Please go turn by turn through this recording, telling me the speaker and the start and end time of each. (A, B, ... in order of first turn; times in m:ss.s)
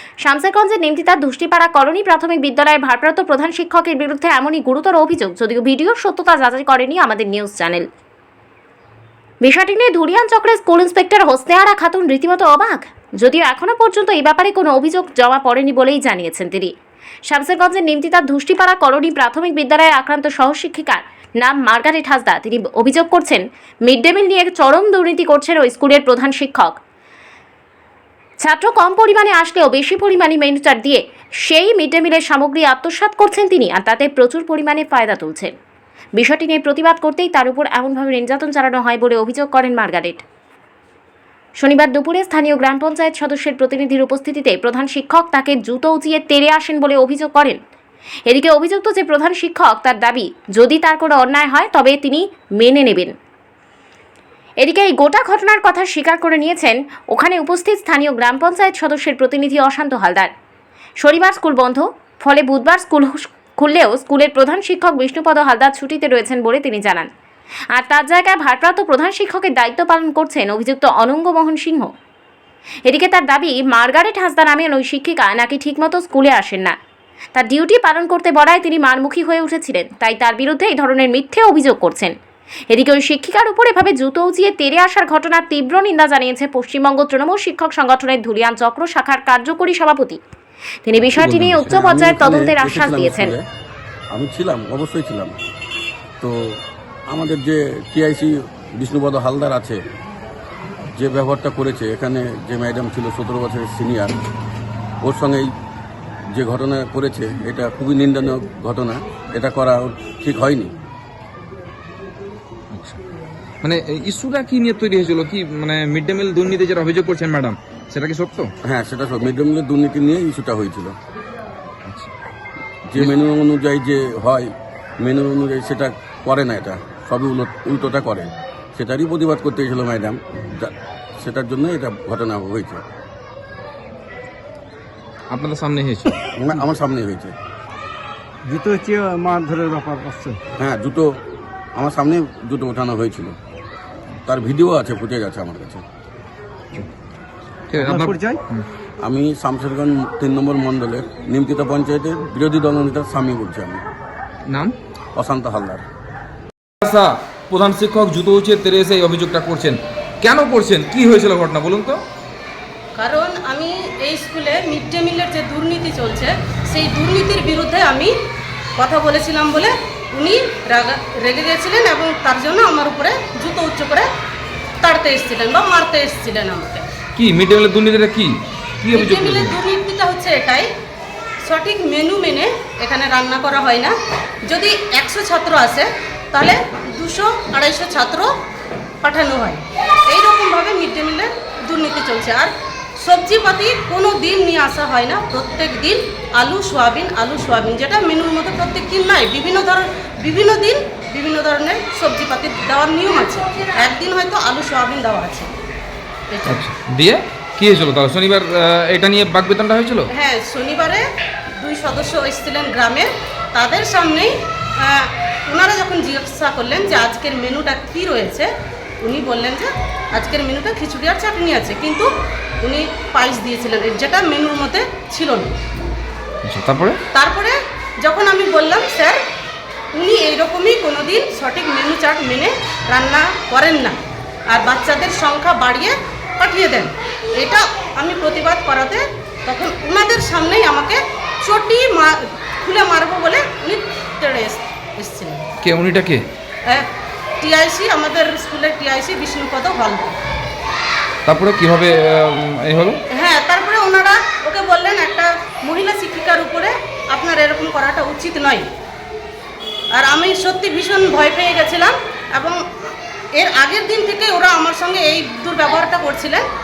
0:00.2-0:07.8 A
0:09.4-0:16.7 A
0:17.3-0:26.8 A
0:28.4-0:35.5 A
0:36.2-0:40.2 A
0:41.6-0:47.6 A
0:48.2-0:53.1 A
0:54.6-1:00.3 A
1:01.0-1:07.1 A
1:07.7-1:11.9 A
1:12.8-1:16.8 A
1:17.3-1:22.1 A
1:22.7-1:30.2 A
1:30.8-1:33.3 A
1:31.2-1:31.8 B
1:31.7-1:33.4 C
1:34.1-1:35.4 C
1:36.2-1:36.6 C
1:37.1-1:39.8 C
1:40.9-1:44.2 C
1:45.0-1:45.5 C
1:46.3-1:50.7 C
1:52.7-1:53.0 B
1:53.6-1:58.5 B
1:58.6-2:00.9 C
2:01.8-2:02.1 B
2:02.9-2:12.8 C
2:15.3-2:16.1 B
2:16.4-2:17.4 C
2:18.4-2:20.4 D
2:20.6-2:21.1 C
2:21.7-2:23.3 C
2:24.2-2:25.8 C
2:27.7-2:28.6 B
2:27.7-2:28.4 D
2:29.0-2:33.8 C
2:34.5-2:34.7 B
2:35.1-2:35.8 C
2:36.8-2:42.0 B
2:43.0-2:48.1 E
2:48.8-2:54.1 E
2:54.8-2:56.9 E
2:57.2-2:59.6 B
2:58.9-3:00.7 E
3:01.4-3:03.9 E
3:04.4-3:08.3 E
3:09.0-3:25.5 E
3:26.3-3:26.6 E
3:26.4-3:30.1 B
3:30.1-3:31.0 E
3:31.6-3:38.5 E
3:39.0-3:42.1 E
3:42.6-3:45.5 E
3:46.4-3:47.0 B
3:47.1-3:49.2 E
3:49.9-4:05.4 E
4:05.6-4:06.2 B
4:07.4-4:10.2 E
4:11.2-4:13.0 B
4:13.1-4:18.7 E
4:19.9-4:26.4 E